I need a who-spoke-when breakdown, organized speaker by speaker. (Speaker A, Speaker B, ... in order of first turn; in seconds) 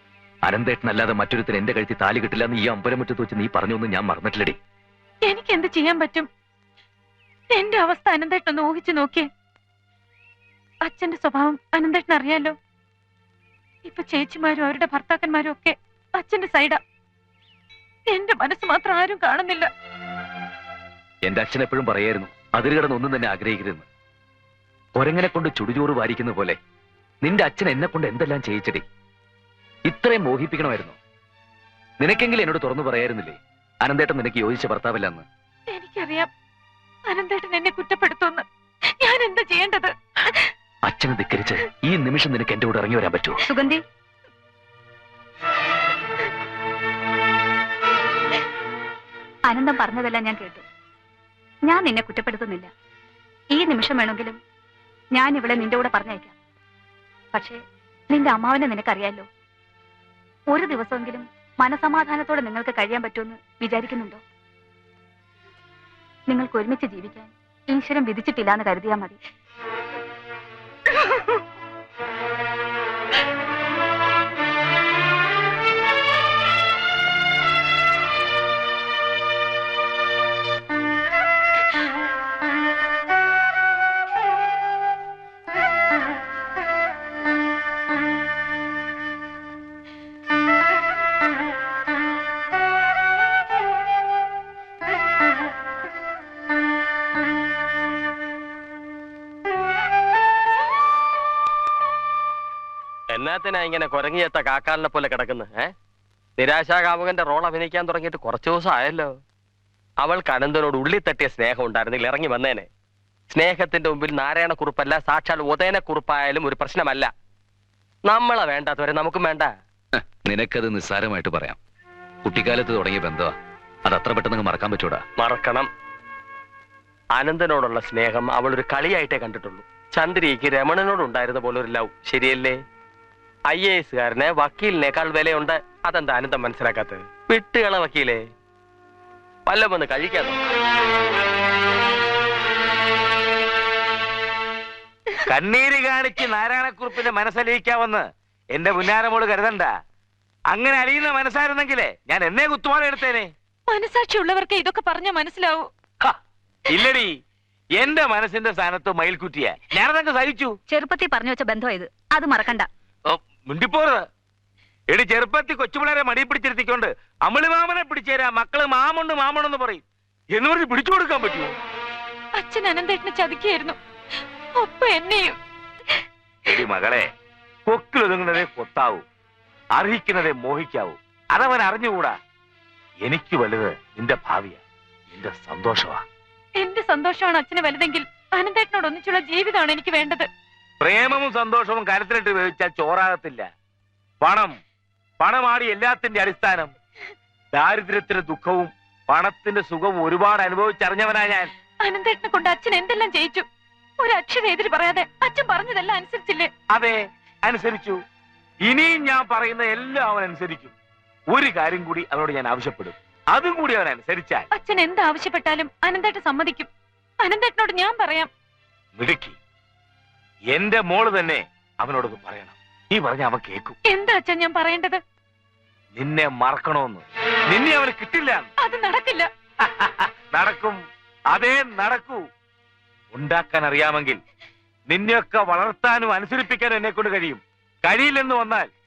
Speaker A: 0.5-4.6, 21.3-23.9, 24.9-26.6, 27.2-28.9, 29.9-31.0, 32.0-35.3, 40.9-43.4, 120.0-121.6, 122.2-123.3, 123.9-125.0
Speaker B: 5.2-6.3, 7.5-9.3, 10.8-12.6, 13.8-16.8, 18.1-19.7, 35.7-36.3, 37.1-38.5, 39.0-40.5, 153.7-155.7, 172.4-173.8, 174.6-175.4, 186.6-190.3, 201.8-203.4, 204.0-206.5, 214.5-216.7, 217.2-218.3, 223.9-225.0, 228.6-229.3
Speaker C: 43.5-43.8, 49.5-50.6, 51.7-52.7, 53.5-54.4, 55.2-56.3, 57.3-59.3, 60.5-64.2, 66.3-69.2, 160.7-162.7
Speaker D: 103.1-105.7, 106.4-109.2, 110.0-112.7, 113.3-117.1, 118.0-119.5, 125.2-125.7, 127.2-132.6, 133.5-138.2, 139.5-140.4
Speaker E: 145.3-149.7, 150.5-153.3, 156.7-157.1, 157.8-160.6, 163.1-164.1, 164.9-171.5, 176.5-177.1, 177.7-179.1, 179.8-182.2, 183.1-186.0, 190.8-193.5, 194.2-194.6, 195.2-196.7, 197.6-201.5, 206.7-208.0, 208.6-210.7, 211.3-214.5, 219.0-219.4, 220.5-223.8, 226.0-228.5, 229.6-230.8, 231.3-232.2, 233.1-234.2, 234.9-238.7